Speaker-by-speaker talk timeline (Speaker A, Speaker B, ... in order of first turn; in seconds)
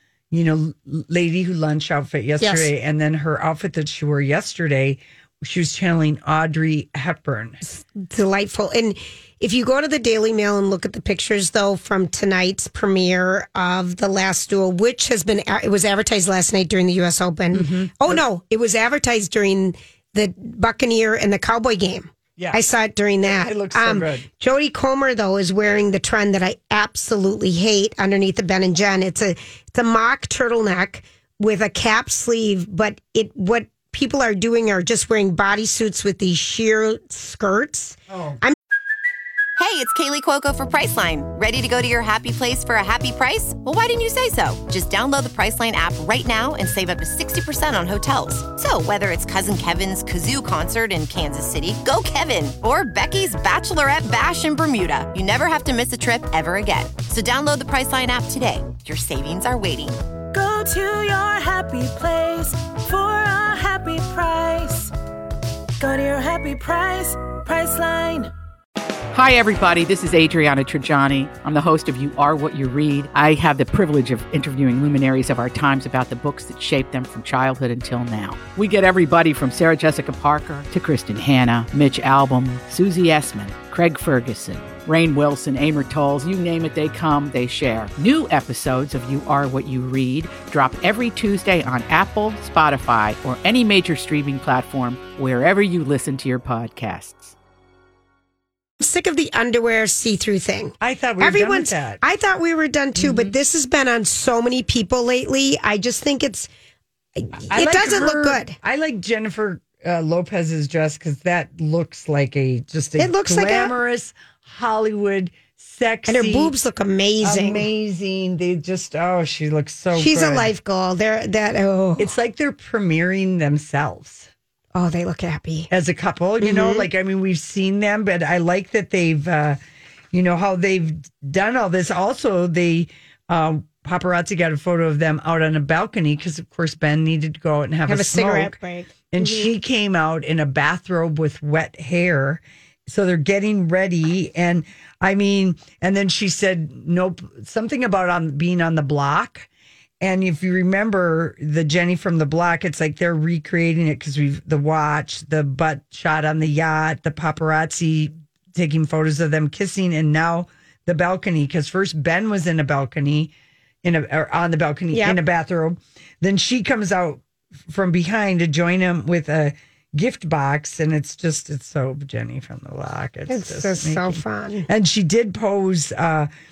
Speaker A: 0.3-7.6, 17.5-18.2, 23.2-24.3, 38.1-38.4, 100.8-102.0, 103.0-103.3, 107.5-116.5, 117.2-120.5, 122.0-124.3, 125.7-129.6, 130.1-138.6, 139.1-149.5, 150.0-163.3, 163.8-176.3
Speaker B: 2.4-2.7, 7.6-38.5, 98.8-106.5, 107.2-108.6, 113.0-113.7, 116.1-117.7, 119.9-122.1, 124.7-125.7, 126.4-126.9, 137.9-139.5, 164.9-165.2, 173.3-174.7
Speaker C: 39.6-60.0
Speaker D: 60.3-64.9, 65.8-68.3
Speaker E: 69.1-97.3